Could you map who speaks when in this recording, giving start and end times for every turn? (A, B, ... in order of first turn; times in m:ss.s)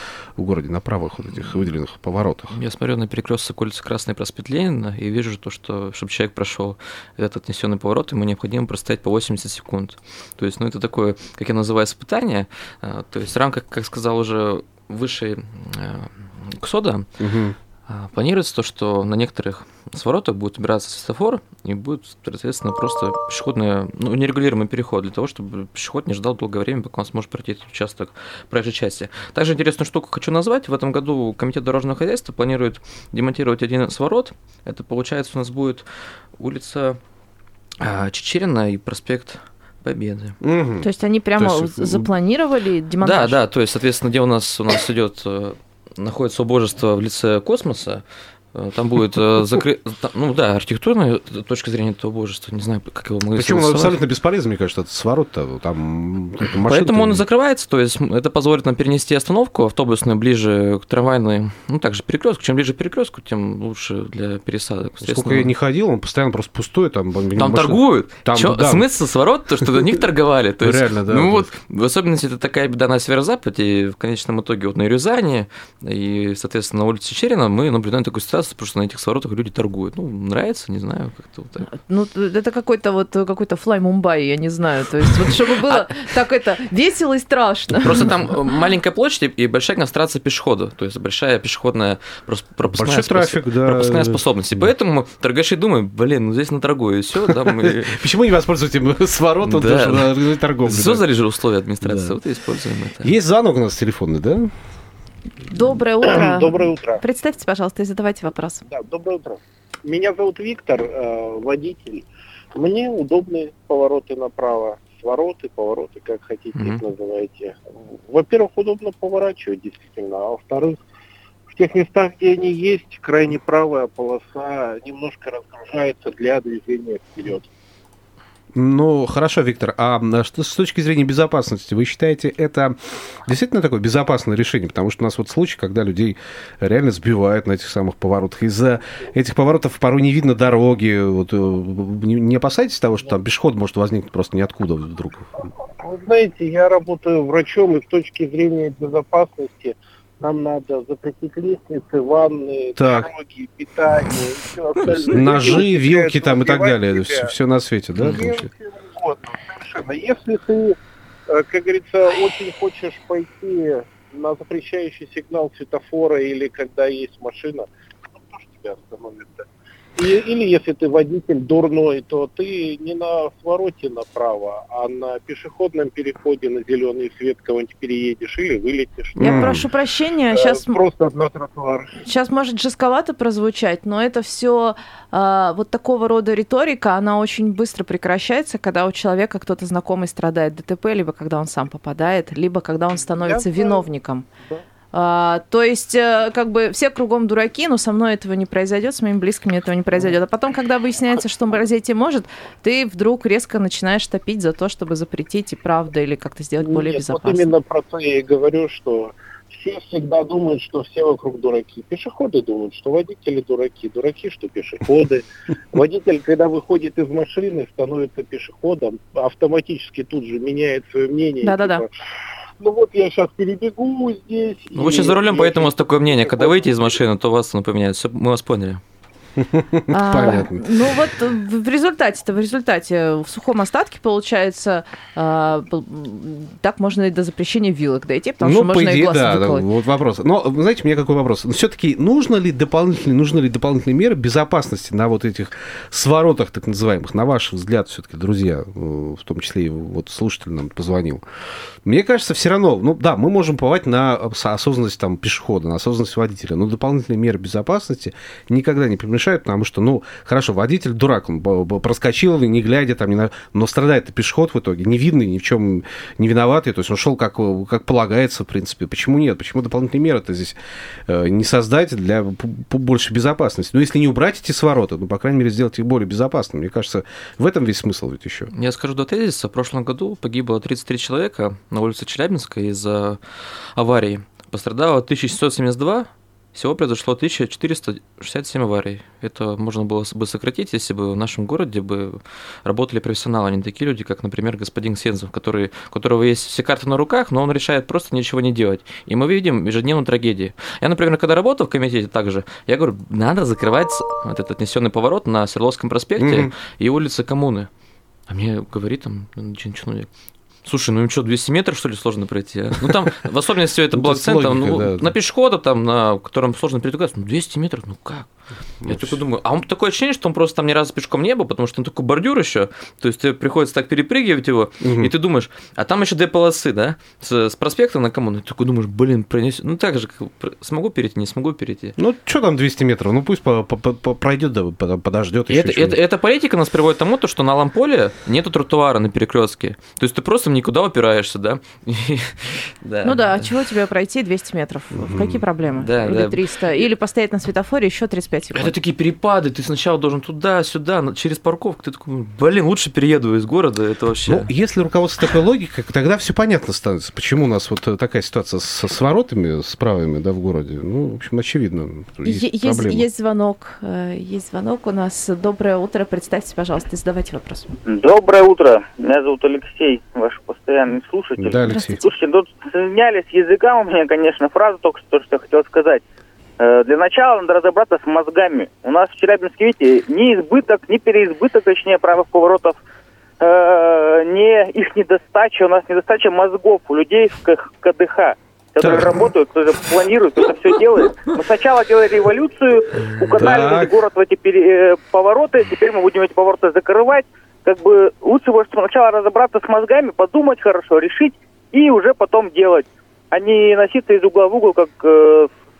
0:00.4-0:02.6 A
0:02.5-0:17.1 B
0:17.2-0:17.6 A
0:17.9-0:37.0 B
0:37.8-0:40.4 B
0:40.4-0:42.1 A
0:40.8-0:43.4 C
0:43.0-0:48.0 B
0:48.5-0:54.0 B
0:53.3-0:57.2 A
0:56.6-1:05.5 B
1:05.0-1:08.9 A
1:07.4-1:21.7 B
1:10.6-1:11.5 A
1:21.7-1:28.0 C
1:27.8-1:38.0 B
1:32.7-1:34.7 A
1:37.2-1:41.0 A
1:39.4-1:43.1 B
1:41.8-1:42.2 A
1:43.0-1:44.5 A
1:45.5-1:48.6 C
1:46.0-1:47.0 D
1:48.7-2:00.8 D
1:56.6-1:56.8 B
2:01.5-2:07.5 D
2:08.5-2:25.3 A
2:25.8-2:37.3 D
2:32.8-2:33.1 A
2:35.1-2:38.3 A
2:38.0-2:38.3 B
2:38.0-2:40.8 D
2:41.3-2:47.6 D
2:48.2-2:49.4 D
2:50.0-2:59.6 D
2:59.2-3:00.8 C
2:59.2-2:59.6 A
3:00.3-3:02.0 D
3:02.0-3:14.3 C
3:13.1-3:13.9 D
3:14.9-3:27.5 C
3:26.6-3:41.9 D
3:41.4-3:41.8 C
3:42.6-3:47.0 D
3:44.7-3:48.8 B
3:49.4-3:50.6 A
3:49.9-3:59.6 C
3:58.4-4:11.2 A
4:11.8-4:30.6 A
4:31.1-4:38.5 A
4:38.5-5:07.7 B
5:06.2-5:06.5 A
5:08.3-5:10.1 B
5:10.6-5:18.3 B
5:13.9-5:15.1 A
5:18.8-5:19.2 A
5:18.8-5:32.0 B
5:24.8-5:25.1 A
5:32.0-5:36.0 A
5:35.5-5:43.5 B
5:43.0-5:48.7 C
5:44.9-5:45.4 A
5:45.8-5:46.4 B
5:48.5-5:54.5 B
5:54.3-6:03.0 A
6:02.2-6:07.7 C
6:07.8-6:16.0 E
6:11.4-6:12.0 A
6:11.7-6:12.0 C
6:16.6-6:22.8 E
6:23.4-6:45.5 E
6:28.8-6:29.3 A
6:33.4-6:34.0 A